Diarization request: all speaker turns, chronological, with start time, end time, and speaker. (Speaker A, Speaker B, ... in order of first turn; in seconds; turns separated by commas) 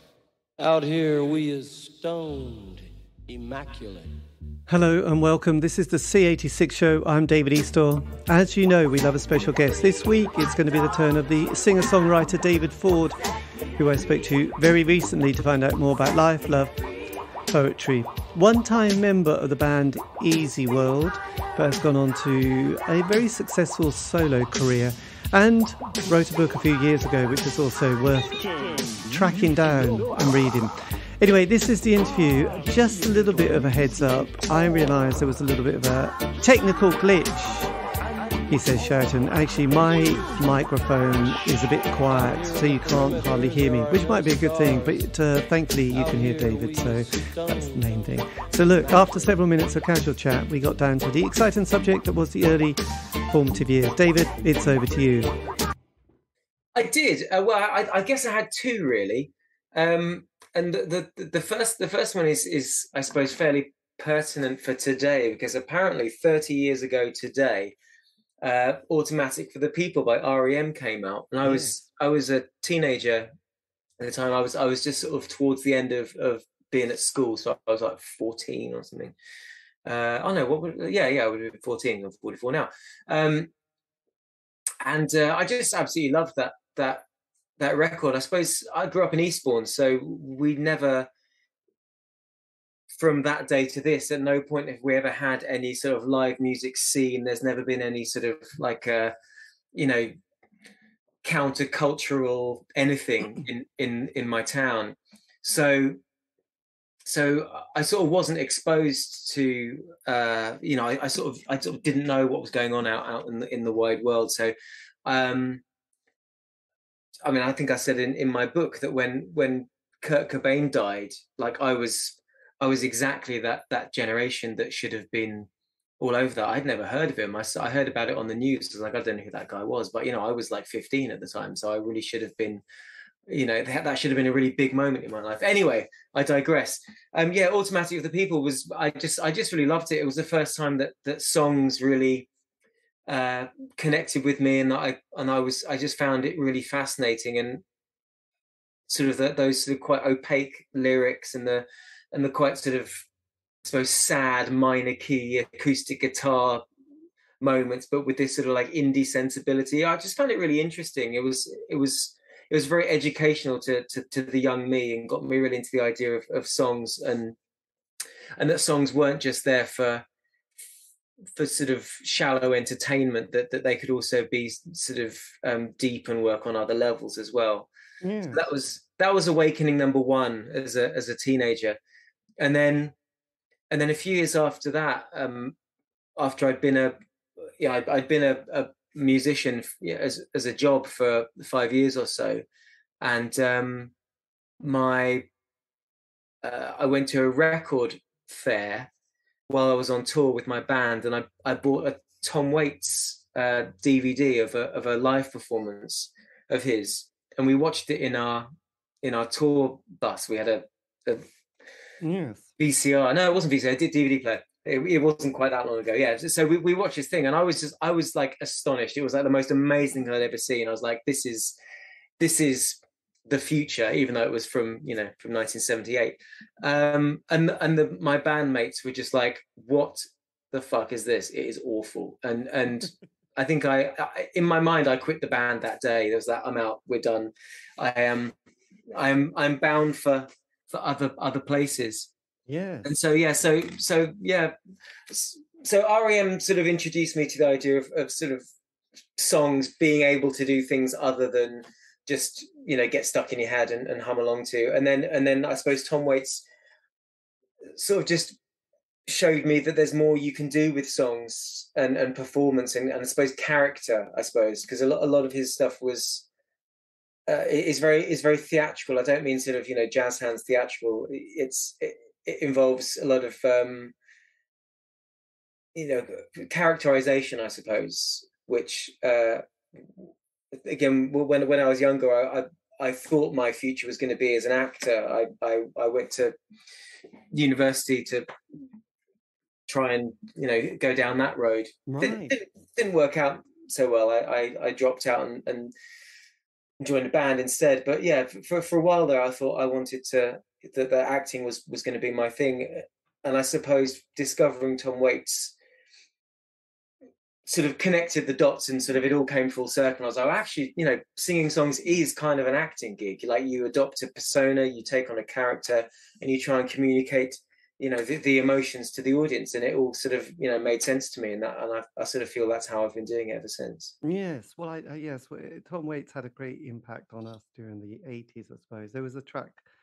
Speaker A: 0.6-4.2, Speaker B: 4.7-13.2, Speaker B: 13.8-16.8, Speaker B: 17.5-28.5, Speaker B: 29.1-37.7, Speaker B: 38.5-55.3, Speaker A: 42.1-45.0, Speaker A: 45.9-47.8, Speaker A: 48.8-49.3, Speaker C: 56.8-67.8, Speaker C: 68.4-73.3, Speaker B: 71.4-71.9, Speaker C: 74.0-79.2, Speaker C: 79.8-83.5, Speaker C: 84.8-87.0, Speaker C: 87.6-91.1, Speaker C: 93.0-99.1, Speaker C: 99.7-100.2, Speaker C: 101.2-106.0, Speaker C: 107.0-114.5, Speaker C: 115.0-115.6, Speaker C: 117.2-125.5, Speaker C: 126.0-132.6, Speaker C: 133.3-142.3, Speaker C: 143.1-147.6, Speaker C: 148.9-153.1, Speaker C: 153.6-156.7, Speaker C: 157.4-167.4, Speaker C: 168.4-170.1, Speaker C: 171.4-177.7, Speaker B: 178.0-178.4, Speaker C: 178.3-181.8, Speaker C: 182.4-182.9, Speaker C: 183.7-185.6, Speaker C: 186.2-187.0, Speaker C: 187.5-192.4, Speaker C: 193.0-193.9, Speaker C: 194.6-195.3, Speaker C: 196.4-198.9, Speaker C: 199.5-208.5, Speaker C: 209.0-211.3, Speaker B: 212.0-212.5, Speaker C: 212.6-221.6, Speaker C: 222.2-238.3, Speaker C: 238.9-242.1, Speaker B: 242.5-242.9, Speaker C: 242.8-244.5, Speaker C: 245.1-248.4, Speaker C: 249.2-256.4, Speaker C: 257.8-258.4, Speaker C: 259.1-266.3, Speaker C: 267.3-273.9, Speaker C: 275.8-286.4, Speaker C: 287.3-288.3, Speaker C: 289.7-295.7, Speaker B: 291.9-292.4, Speaker C: 296.8-305.6, Speaker C: 307.5-323.9, Speaker B: 324.0-329.6